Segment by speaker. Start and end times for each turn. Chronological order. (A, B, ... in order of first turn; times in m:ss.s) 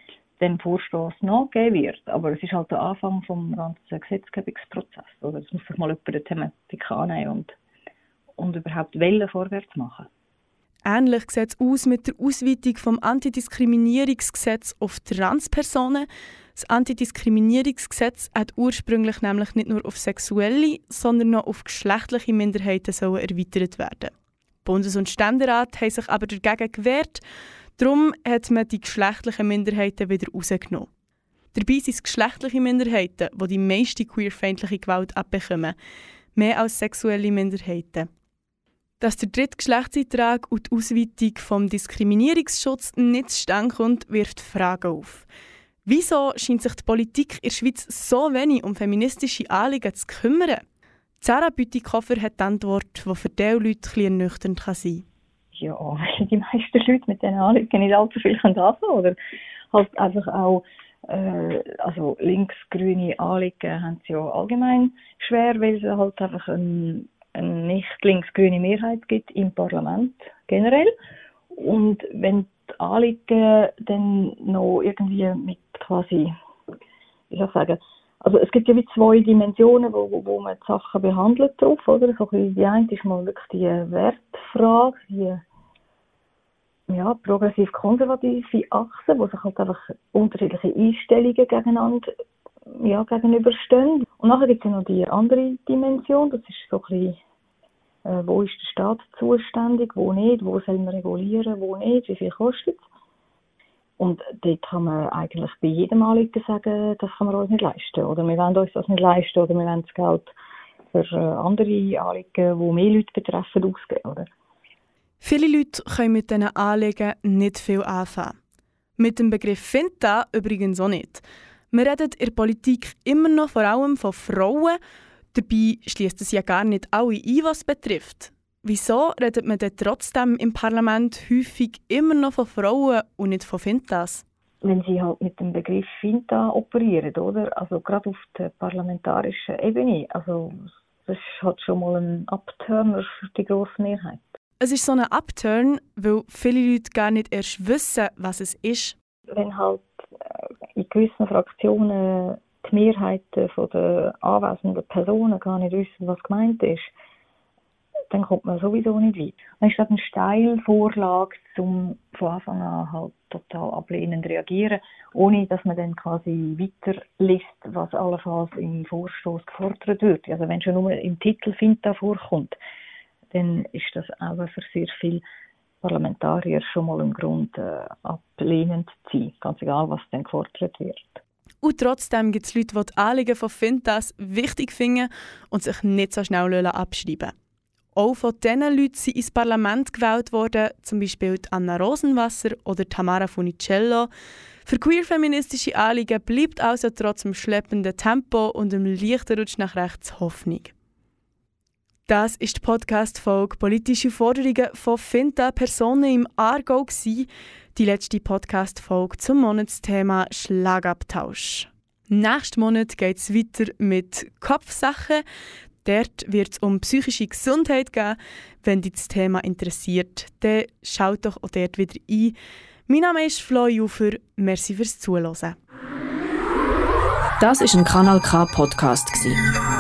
0:00.4-0:07.6 A
0:08.4-0:10.1 A
0:10.8-0:24.1 B
0:24.6-0:27.2 B
0:27.8-0:30.9 B
0:31.5-0:35.8 B
0:36.4-0:38.1 B
0:39.0-0:45.3 B
0:45.8-0:50.6 B
0:51.2-0:55.0 B
0:55.6-0:59.2 A
0:59.7-1:10.9 A
1:11.5-1:16.3 A
1:17.3-1:25.4 A
1:26.9-1:32.1 A
1:32.7-1:37.2 A
1:38.0-1:42.8 A
1:44.0-1:50.3 A
1:50.9-1:54.3 A
1:55.2-1:58.3 B
1:59.0-2:04.8 B
2:05.3-2:14.2 B
2:14.6-2:24.3 A
2:24.6-2:29.0 B
2:29.3-2:36.9 A
2:38.1-2:52.6 A
2:53.3-2:55.2 A
2:55.8-3:01.2 A
3:01.6-3:07.3 B
3:08.0-3:14.1 B
3:14.7-3:20.7 B
3:22.1-3:35.2 B
3:35.8-3:42.4 B
3:42.9-3:45.6 B
3:47.4-3:49.4 C